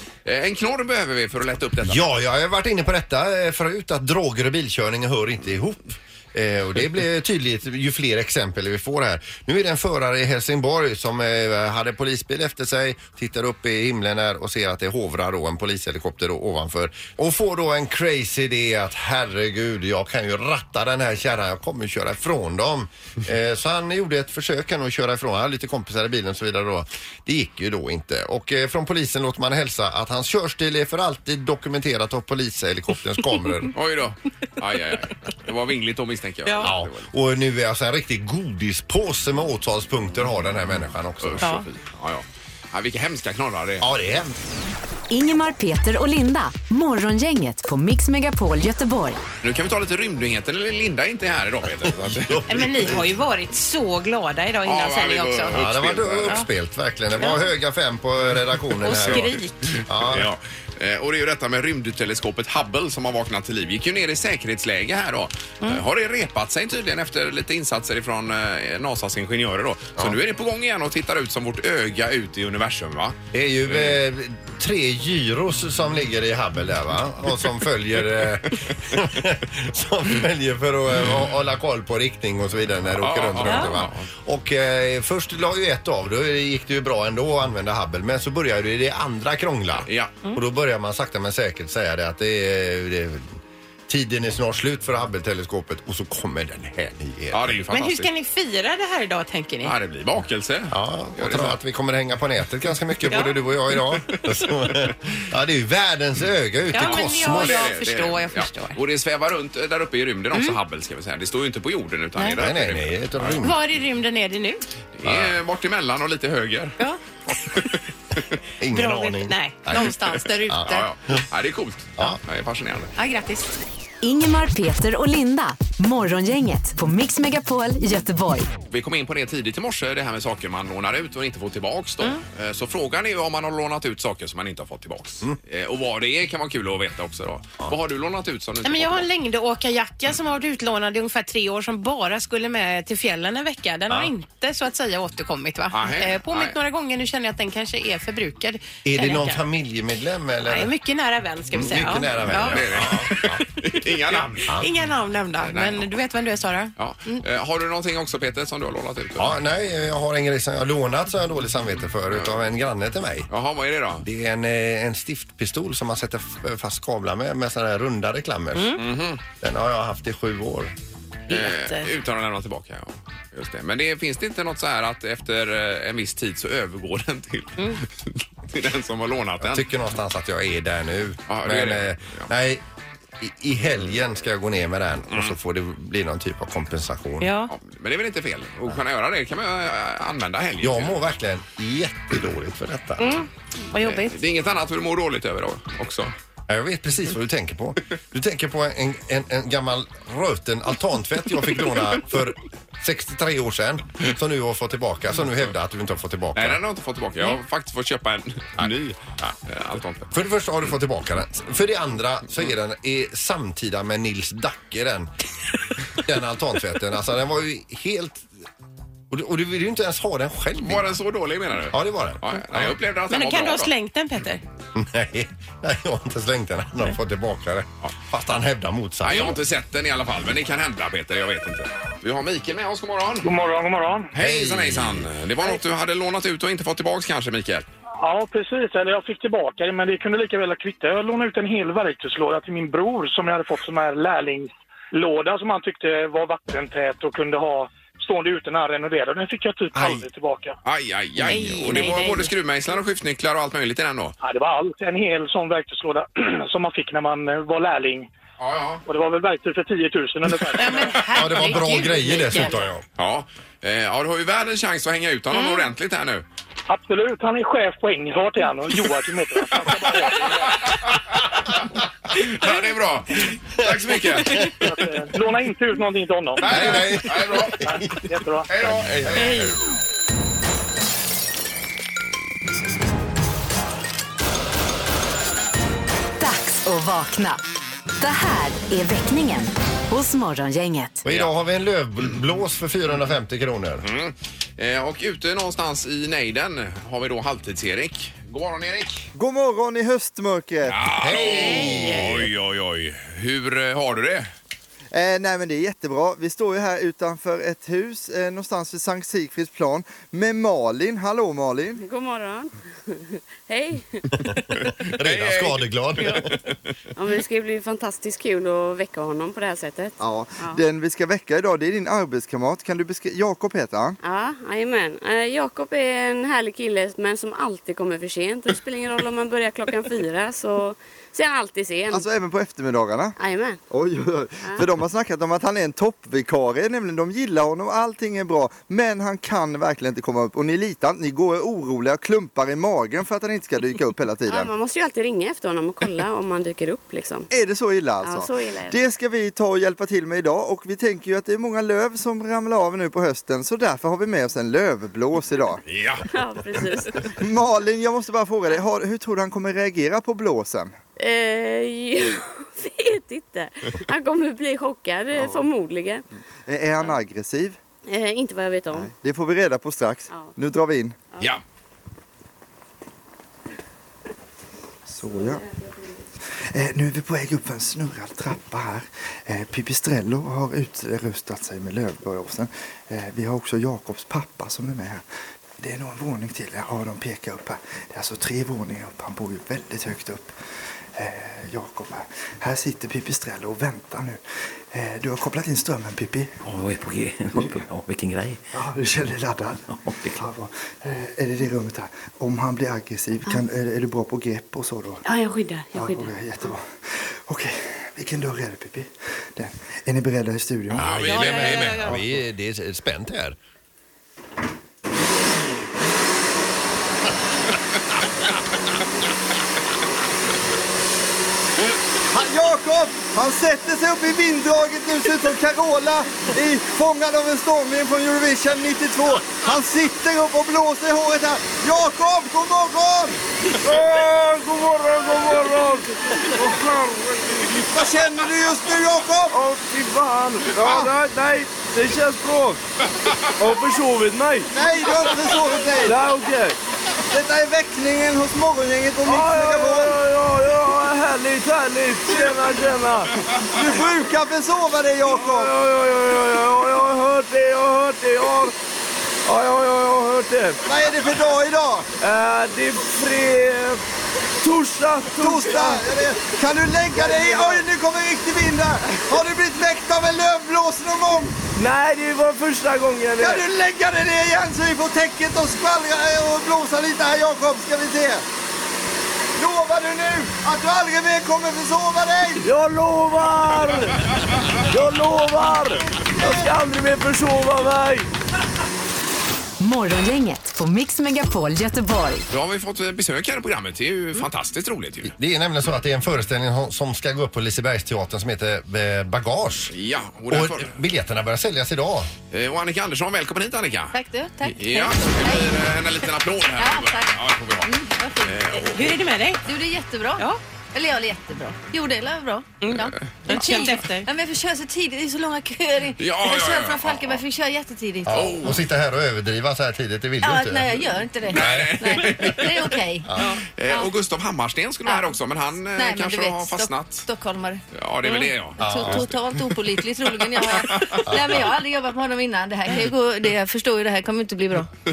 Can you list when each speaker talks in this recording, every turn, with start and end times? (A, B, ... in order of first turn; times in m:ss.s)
0:00.2-0:02.1 A
0:01.8-0:33.8 B
0:33.7-0:37.1 A
0:36.6-0:41.6 B
0:41.2-0:43.9 A
0:43.8-0:44.4 B
0:45.1-0:49.2 C
0:49.4-0:53.0 A
0:51.8-0:53.2 B
0:52.5-0:55.5 D
0:54.6-0:56.4 A
0:55.5-0:59.3 B
0:58.8-0:59.8 D
0:59.0-1:13.2 A
0:59.9-1:00.3 B
1:13.3-1:37.6 B
1:13.7-1:14.0 A
1:23.0-1:24.1 A
1:23.4-1:23.7 D
1:29.8-1:30.2 A
1:37.3-1:38.1 A
1:37.7-1:39.7 D
1:39.6-1:41.6 A
1:40.7-1:47.6 B
1:44.1-1:44.9 A
1:46.7-1:48.8 D
1:46.8-1:53.4 A
1:52.4-1:53.6 B
1:53.4-1:54.6 D
1:55.0-1:56.8 A
1:55.0-1:55.4 B
1:58.6-2:00.0 B
1:58.7-2:00.9 D
2:00.5-2:01.2 B
2:00.7-2:02.9 A
2:03.0-2:03.6 D
2:04.0-2:08.5 C
2:08.7-2:19.1 A
2:18.6-2:29.4 D
2:25.7-2:26.6 A
2:28.8-2:30.7 B
2:30.5-2:32.6 D
2:31.5-2:33.4 B
2:32.3-2:34.5 A
2:34.6-2:37.2 D
2:35.4-2:35.9 A
2:36.8-2:39.4 A
2:39.2-2:43.3 B
2:42.1-2:42.4 A
2:43.3-2:44.0 A
2:44.0-2:48.8 B
2:48.6-2:48.8 D
2:48.8-2:49.2 A
2:49.4-2:50.7 B
2:51.3-2:51.9 D
2:51.3-2:59.7 A
2:59.4-3:02.6 B
3:01.3-3:02.3 A
3:03.2-3:07.3 B
3:07.2-3:07.5 D
3:07.5-3:11.0 A
3:10.6-3:13.2 B
3:13.0-3:14.2 D
3:13.8-3:16.1 A
3:16.5-3:26.6 B
3:26.4-3:30.1 A
3:30.1-3:35.1 B
3:36.0-3:38.3 B
3:39.1-3:40.9 B
3:40.6-3:43.7 A
3:41.7-3:42.7 B
3:43.1-3:44.4 D
3:44.7-3:49.4 B
3:49.0-3:53.3 A
3:53.2-3:54.1 E
3:54.1-3:57.7 A
3:54.2-3:55.1 B
3:58.0-4:10.6 E
4:10.6-4:14.2 A
4:11.3-4:12.3 D
4:14.2-4:18.1 E
4:18.4-4:18.8 A
4:18.9-4:21.0 E
4:20.6-4:22.6 D
4:21.1-4:22.8 B
4:23.0-4:26.2 A
4:25.3-4:25.7 D
4:26.7-4:30.4 E
4:30.1-4:31.6 A
4:32.1-4:34.6 A
4:33.6-4:34.4 B
4:34.5-4:37.0 E
4:36.4-4:37.7 A
4:36.4-4:38.0 B
4:37.5-4:38.5 E
4:38.5-4:39.5 A
4:38.5-4:39.6 B
4:46.2-4:47.4 C
4:48.0-4:51.0 C
4:51.0-4:53.9 B
4:53.8-4:59.1 A
4:59.2-5:00.8 F
5:00.6-5:04.3 A
5:01.0-5:02.3 B
5:01.1-5:02.0 D
5:04.9-5:11.8 F
5:11.8-5:14.0 G
5:14.2-5:16.3 B
5:14.5-5:16.7 A
5:17.0-5:20.6 G
5:20.0-5:24.0 F
5:24.0-5:32.1 G
5:31.9-5:33.2 F
5:33.2-5:33.6 G
5:33.7-5:44.5 F
5:34.4-5:34.7 G
5:44.3-5:47.3 G
5:47.3-5:55.6 F
5:48.0-5:48.8 G
5:55.7-5:56.1 A
5:56.1-5:57.2 G
5:57.1-6:00.7 F
6:01.0-6:06.0 G
6:05.1-6:05.5 F
6:06.5-6:07.6 F
6:07.9-6:08.9 G
6:08.7-6:11.0 F
6:10.1-6:10.4 G
6:14.9-6:15.5 F
6:16.5-6:25.0 F
6:25.6-6:30.3 F
6:31.0-6:36.3 F
6:36.4-6:38.4 H
6:38.6-6:45.1 F
6:39.7-6:40.3 H
6:45.7-6:50.9 F
6:50.8-6:52.0 A
6:50.8-6:53.4 B
6:51.0-6:52.0 D
7:02.1-7:13.2 F
7:13.6-7:17.7 I
7:17.7-7:19.4 F
7:19.3-7:22.6 I
7:20.6-7:20.9 F
7:23.4-7:25.0 I
7:24.6-7:26.0 F
7:25.8-7:26.6 I
7:27.1-7:30.0 F
7:29.0-7:33.1 I
7:32.1-7:32.4 F
7:33.4-7:35.5 F
7:35.1-7:38.5 I
7:39.3-7:40.6 I
7:40.6-7:41.9 F
7:42.0-7:43.8 I
7:44.4-7:45.9 I
7:45.2-7:51.4 F
7:47.0-7:47.6 I
7:51.6-7:53.5 I
7:53.2-7:58.2 F
7:59.4-8:02.4 F
8:02.4-8:04.0 I
8:04.6-8:08.1 I
8:09.6-8:12.2 C
8:12.3-8:15.1 A
8:15.0-8:19.7 B
8:19.7-8:20.7 A
8:20.3-8:22.1 B
8:22.3-8:24.0 A
8:23.9-8:25.6 J
8:24.5-8:29.1 A
8:26.6-8:28.4 J
8:28.5-8:29.4 D
8:29.4-8:38.6 J
8:32.6-8:34.1 D
8:36.0-8:37.2 A
8:38.1-8:42.4 B
8:38.1-8:38.6 A
8:40.2-8:43.1 J
8:41.3-8:42.8 A
8:43.5-8:47.1 A
8:45.7-8:47.6 J
8:47.8-8:49.1 A
8:48.6-8:54.7 J
8:48.6-8:49.1 B
8:50.6-8:51.0 A
8:51.1-8:51.5 B